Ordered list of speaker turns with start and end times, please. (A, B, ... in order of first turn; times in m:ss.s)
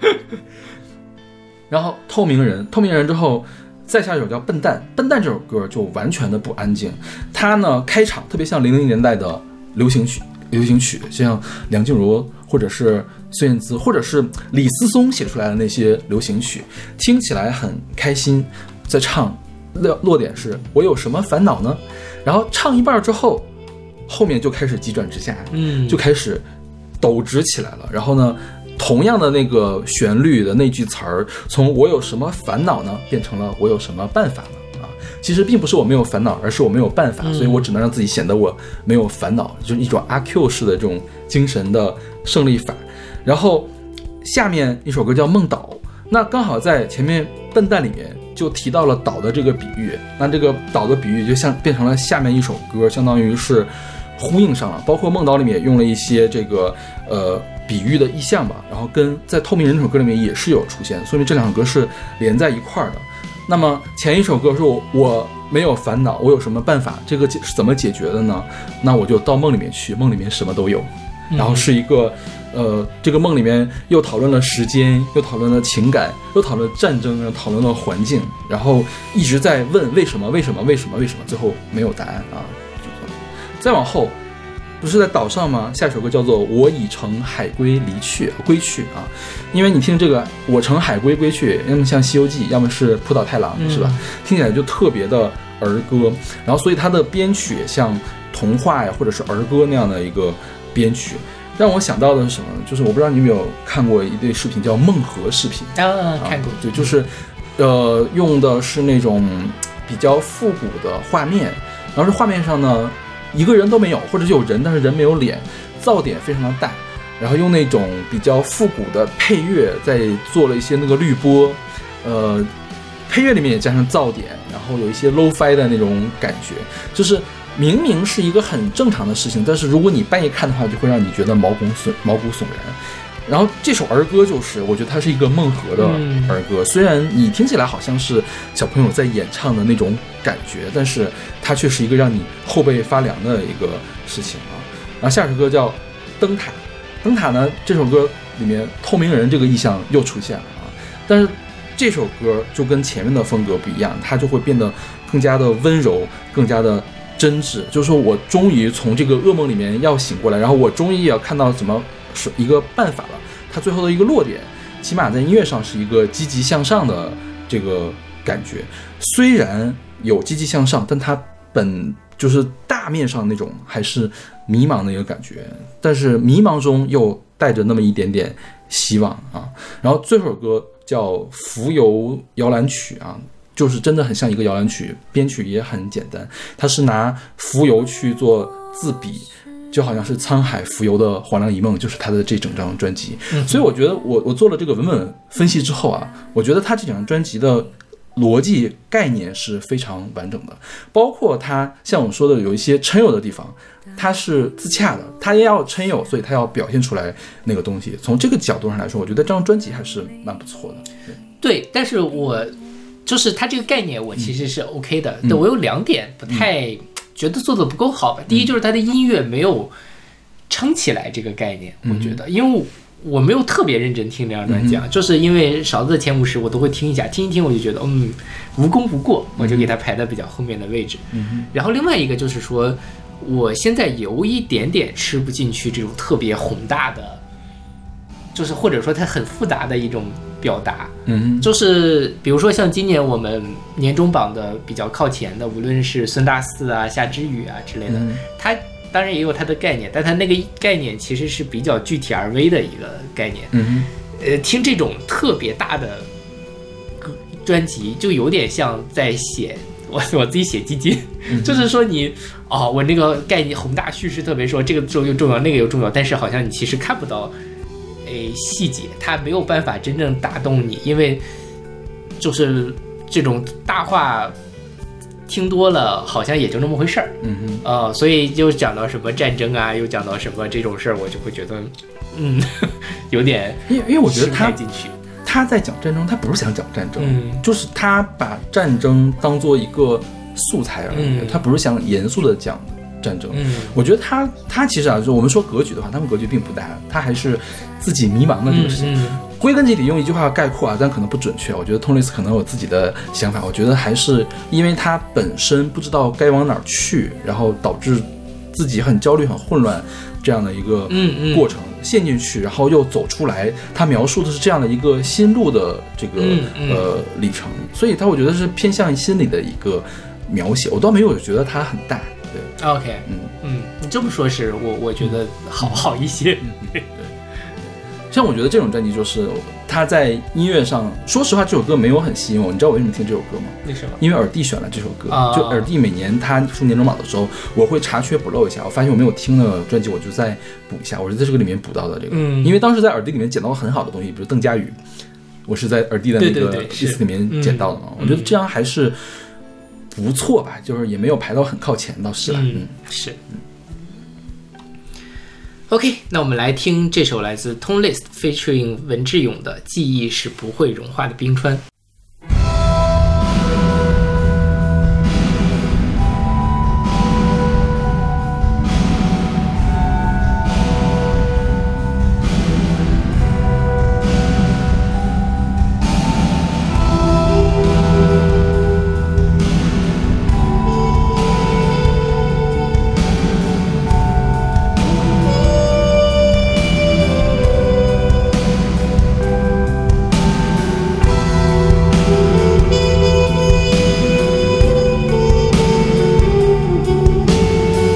0:01.7-0:23.5 A
0:24.1-0:26.4 A
0:25.5-0:26.0 B
0:27.0-0:43.7 A
0:37.2-0:37.6 B
0:44.2-1:24.2 A
1:11.3-1:11.7 B
1:24.8-2:02.5 A
1:33.6-1:34.0 B
1:45.8-1:46.9 B
2:03.1-3:31.1 A
2:15.8-2:16.4 B
3:13.3-3:13.6 B
3:31.4-3:32.5 B
3:33.0-3:39.7 B
3:40.5-3:57.2 B
3:41.8-3:42.2 A
3:44.5-3:44.8 A
3:49.4-3:49.7 A
3:51.1-3:51.5 A
3:58.3-4:13.6 B
4:01.0-4:01.5 A
4:07.9-4:08.2 A
4:13.5-4:13.9 A
4:14.1-4:16.1 B
4:17.0-4:27.4 B
4:21.3-4:21.7 A
4:28.0-4:31.2 B
4:32.2-4:34.3 B
4:35.3-4:44.9 B
4:37.2-4:37.6 A
4:43.7-4:44.6 A
4:45.2-5:22.5 A
4:47.0-4:47.4 B
4:50.9-4:51.4 B
4:53.3-4:53.8 B
4:58.5-4:59.2 B
5:10.9-5:11.4 B
5:16.2-5:16.9 B
5:22.6-5:26.9 B
5:23.0-5:23.3 A
5:25.0-5:25.8 A
5:26.4-5:27.1 A
5:28.1-5:44.8 A
5:33.6-5:34.0 B
5:35.1-5:35.7 B
5:42.1-5:42.6 B
5:45.4-5:49.1 A
5:46.2-5:48.3 B
5:49.9-5:52.7 A
5:52.3-5:53.2 B
5:55.7-6:01.6 B